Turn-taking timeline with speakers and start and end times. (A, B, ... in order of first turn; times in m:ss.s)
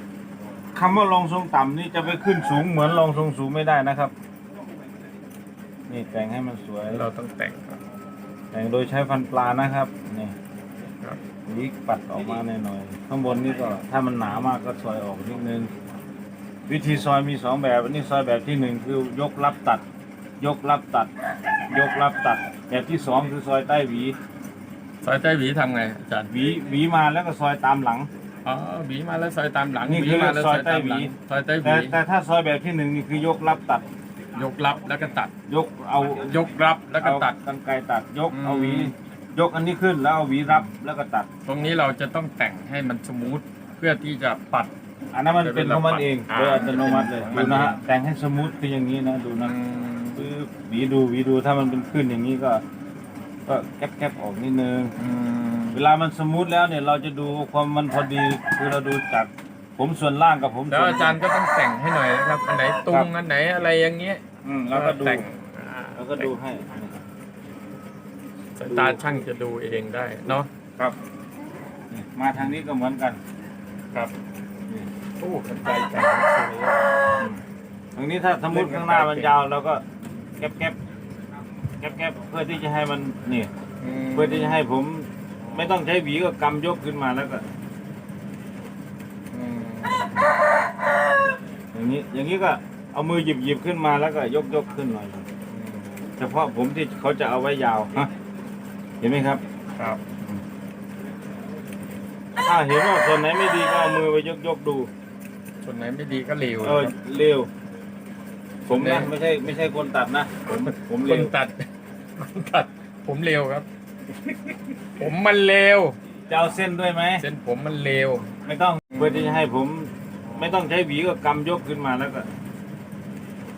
0:00.7-0:04.1 A
0:05.9-0:07.0 A
0:06.9-0:07.8 B
0:08.5-0:10.4 A
0:11.4-0:15.7 A
0:16.7-0:19.8 A
0:20.4-0:21.1 A
0:21.7-0:24.1 A
0:25.0-0:26.3 B
0:26.3-0:28.1 A
0:28.4-0:32.0 B
0:29.8-0:33.8 A
0:34.4-0:35.3 B
0:35.5-0:36.4 A
0:36.2-0:37.3 B
0:37.0-0:41.3 A
0:38.3-0:38.9 B
0:41.4-0:44.7 B
0:45.1-0:49.5 A
0:45.4-0:47.8 B
0:49.4-0:50.2 B
0:50.2-0:52.6 A
0:53.5-0:54.9 A
0:55.0-0:55.8 B
0:55.7-1:01.2 A
1:00.7-1:04.2 B
1:04.4-1:05.2 A
1:04.7-1:06.3 B
1:06.0-1:07.0 A
1:08.6-1:10.5 B
1:08.7-1:09.0 A
1:11.9-1:13.2 A
1:15.2-1:17.0 B
1:17.9-1:19.8 A
1:18.5-1:19.3 B
1:20.4-1:20.8 A
1:21.8-1:23.5 A
1:23.8-1:24.6 B
1:24.1-1:27.4 A
1:29.3-1:30.1 B
1:31.7-1:35.2 A
1:35.5-1:36.0 B
1:36.2-1:38.1 A
1:39.0-1:39.4 A
1:39.8-1:40.0 B
1:42.4-1:44.9 A
1:45.6-1:46.9 B
1:46.6-1:47.5 A
1:48.6-1:51.3 A
1:48.7-1:49.1 B
1:50.5-1:53.6 B
1:55.0-1:56.0 B
1:56.3-1:57.2 A
1:57.2-1:58.3 B
1:58.4-2:02.3 A
1:58.9-1:59.5 B